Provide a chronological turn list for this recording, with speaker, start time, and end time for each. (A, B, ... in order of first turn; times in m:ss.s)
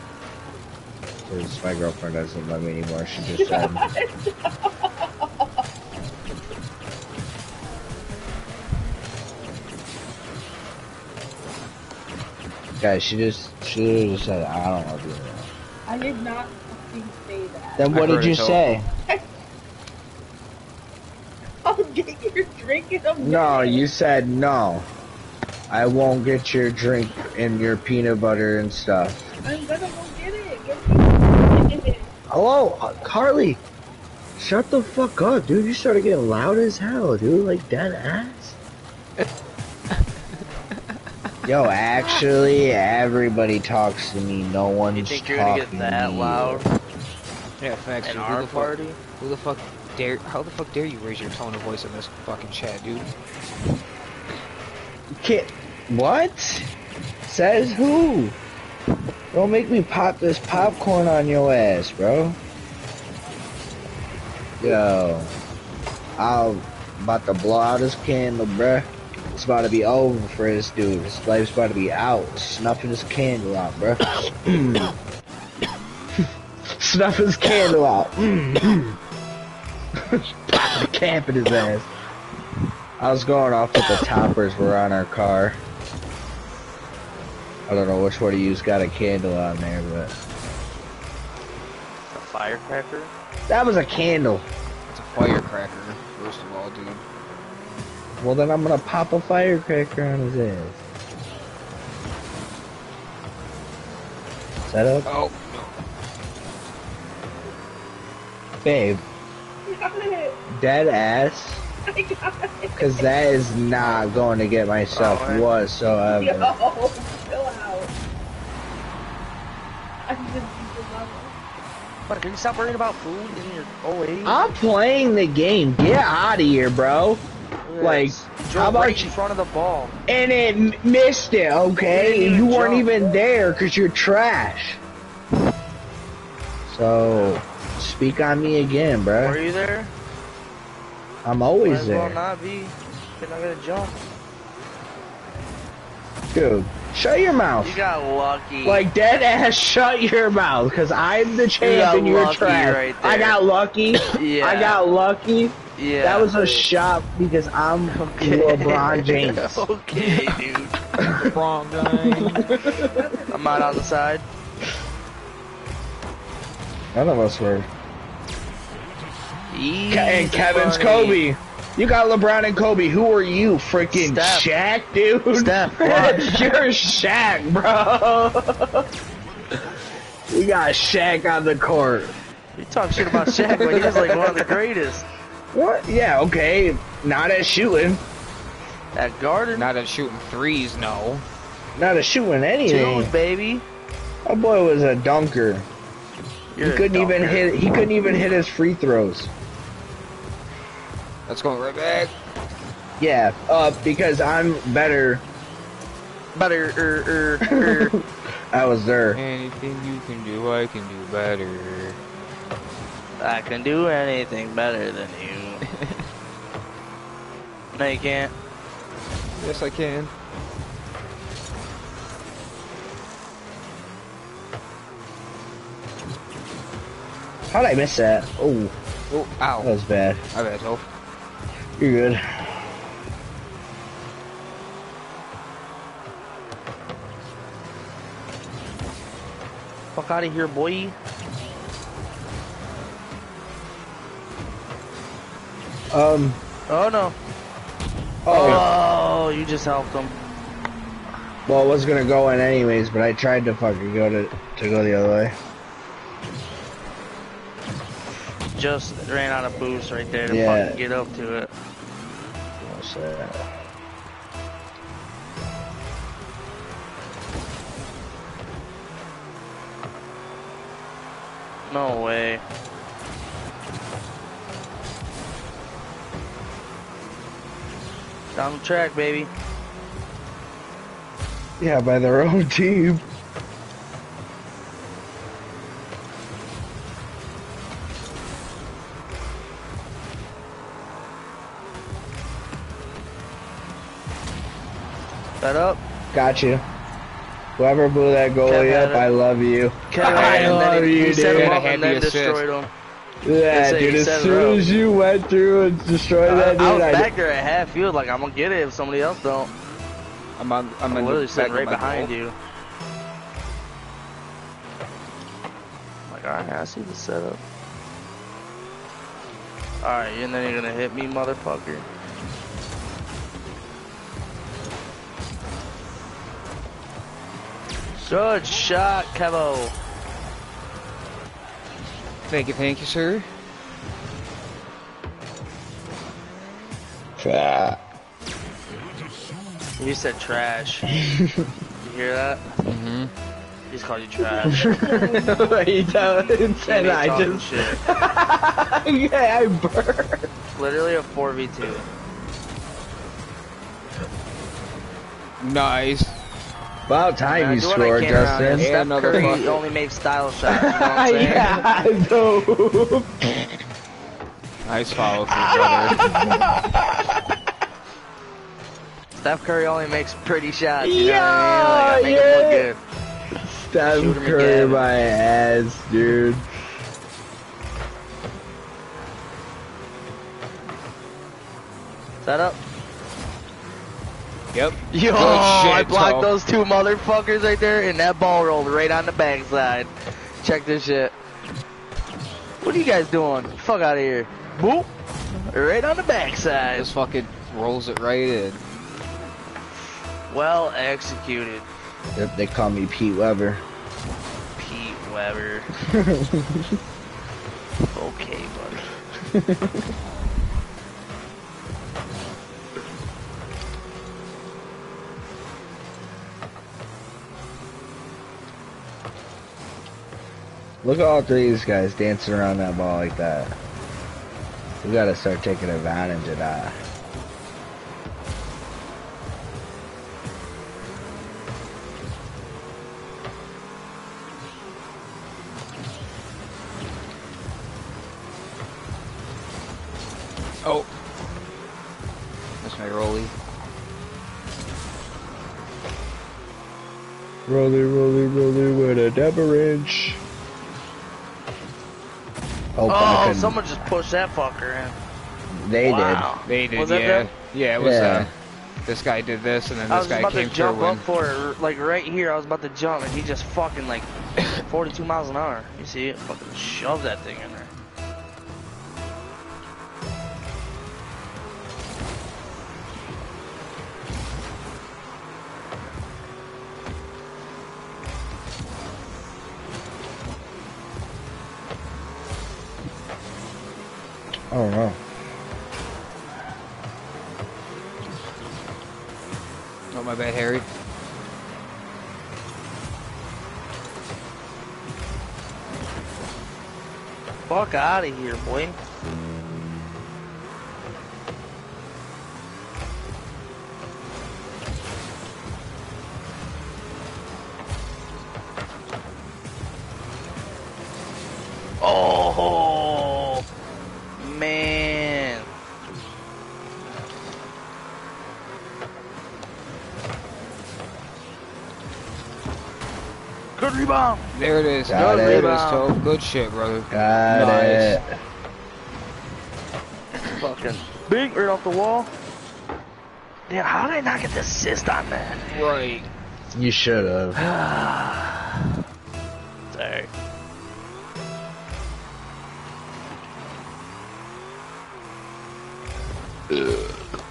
0:01.2-0:03.8 A
0:03.2-0:05.5 B
0:12.8-0:15.5 A
0:15.9-0:17.9 B
0:17.8-0:18.9 A
0:17.9-0:18.6 C
0:21.6-0:23.9 B
0:23.2-0:24.9 A
0:25.7-0:29.3 A
0:29.4-0:32.1 B
0:32.3-0:33.6 A
0:34.4-0:38.6 A
0:41.4-0:46.6 A
0:44.9-0:46.7 D
0:47.6-0:53.1 C
0:48.0-0:49.0 D
0:55.2-0:56.7 A
0:57.3-0:58.4 A
0:59.3-1:02.4 A
1:04.6-1:05.3 A
1:06.2-1:15.0 A
1:16.2-1:19.0 A
1:20.0-1:21.9 A
1:23.0-1:25.6 A
1:27.7-1:30.1 A
1:32.1-1:33.1 D
1:33.5-1:34.5 A
1:34.9-1:37.0 C
1:38.2-1:40.8 A
1:44.7-1:45.1 A
1:45.1-1:45.8 C
1:48.6-1:49.0 A
1:49.7-1:50.4 B
1:50.5-1:51.6 A
1:51.9-1:52.9 B
1:52.8-1:56.5 A
1:53.8-1:54.2 C
1:54.9-1:55.5 D
1:56.2-1:57.9 B
2:00.0-2:01.4 B
2:02.1-2:04.4 D
2:04.2-2:07.2 A
2:07.6-2:10.0 D
2:07.8-2:09.1 A
2:10.1-2:14.8 A
2:11.9-2:13.2 D
2:16.7-2:19.4 A
2:17.1-2:17.4 D
2:19.2-2:19.9 D
2:21.2-2:22.2 A
2:21.6-2:24.0 D
2:26.3-2:27.8 A
2:27.6-2:28.9 D
2:28.6-2:39.7 A
2:31.6-2:33.4 D
2:34.1-2:34.8 D
2:35.8-2:36.6 D
2:37.9-2:40.7 D
2:40.0-2:40.4 C
2:41.0-2:41.3 A
2:41.0-2:42.6 C
2:41.9-2:43.0 A
2:42.5-2:43.8 B
2:43.3-2:44.2 D
2:46.9-2:47.7 A
2:49.5-2:51.2 D
2:49.9-2:58.9 A
2:53.9-2:54.5 D
2:55.3-2:56.4 D
3:00.3-3:02.2 A
3:02.6-3:05.1 D
3:03.0-3:04.6 A
3:05.5-3:08.0 A
3:08.9-3:09.7 D
3:09.5-3:11.2 C
3:11.8-3:13.1 A
3:12.6-3:13.6 D
3:14.2-3:15.7 A
3:16.5-3:17.5 D
3:16.6-3:19.3 A
3:21.3-3:22.1 C
3:23.0-3:25.2 A
3:26.4-3:27.9 D
3:27.4-3:29.2 A
3:29.1-3:32.0 C
3:33.2-3:35.6 D
3:35.8-3:36.0 C
3:37.8-3:38.3 D
3:39.4-3:40.1 C
3:47.5-3:48.7 A
3:49.1-3:49.7 C
3:49.6-3:50.2 A
3:50.3-3:50.9 C
3:51.8-3:52.7 A
3:59.9-4:00.9 D
4:05.9-4:06.4 A
4:06.7-4:07.2 D
4:08.2-4:08.8 A
4:08.3-4:10.2 D
4:08.3-4:08.7 C
4:11.5-4:15.4 A
4:18.5-4:21.5 D
4:20.2-4:20.8 A
4:22.6-4:23.5 A
4:31.6-4:32.4 D
4:38.4-4:39.3 D
4:41.6-4:43.0 A
4:55.4-4:55.8 D
4:56.1-4:56.6 A
4:57.6-5:01.6 A
4:58.5-4:59.1 D
4:59.9-5:02.7 D
5:00.0-5:02.4 C
5:03.2-5:07.1 A
5:03.5-5:04.6 D
5:06.2-5:09.5 D
5:10.4-5:12.1 C
5:10.9-5:12.4 D
5:16.1-5:17.4 D
5:19.8-5:21.9 D
5:28.0-5:29.8 D
5:32.3-5:33.3 C
5:37.2-5:37.8 A
5:39.8-5:40.9 D
5:40.9-5:41.5 A
5:41.8-5:42.5 D
5:42.6-5:43.1 C
5:43.7-5:44.6 D
5:44.4-5:50.3 A
5:44.5-5:46.5 B
5:46.6-5:47.8 D
5:50.5-5:51.9 D
5:55.4-5:56.2 C
5:56.9-5:59.4 A
5:57.2-6:01.6 D
5:58.5-5:59.6 C
6:00.4-6:03.4 A
6:04.6-6:06.0 C
6:05.1-6:07.4 A
6:09.2-6:12.8 D
6:10.8-6:12.6 A
6:13.4-6:16.4 A
6:13.9-6:14.9 D
6:22.2-6:22.6 D
6:24.5-6:26.3 C
6:24.9-6:29.9 D
6:30.4-6:31.1 D
6:32.6-6:34.9 D
6:35.5-6:36.9 D
6:36.8-6:38.6 C
6:40.3-6:41.7 D
6:42.2-6:43.6 A
6:44.6-6:45.7 D
6:45.8-6:46.8 A
6:47.8-6:48.8 D
6:49.2-6:49.9 A
7:00.8-7:03.6 A
7:04.8-7:06.8 A
7:20.6-7:20.9 C
7:22.6-7:23.3 C
7:27.5-7:30.2 A
7:32.8-7:33.6 A
7:32.9-7:35.0 D
7:35.5-7:36.3 A
7:35.8-7:37.3 D
7:36.5-7:38.3 C
7:37.8-7:38.3 A
7:38.9-7:41.0 C
7:39.9-7:47.7 D
8:04.5-8:05.0 A
8:09.9-8:10.6 C
8:17.5-8:18.8 D
8:31.8-8:33.4 D
8:34.2-8:35.5 D
8:43.6-8:44.2 D
8:44.3-8:48.0 C
8:44.9-8:45.5 A
8:44.9-8:46.0 D
8:46.9-8:48.0 A
8:50.3-8:52.1 D
8:53.5-8:55.4 D
8:55.5-8:56.1 C
8:56.5-8:57.4 A
8:57.4-8:58.6 D
8:59.7-9:00.1 D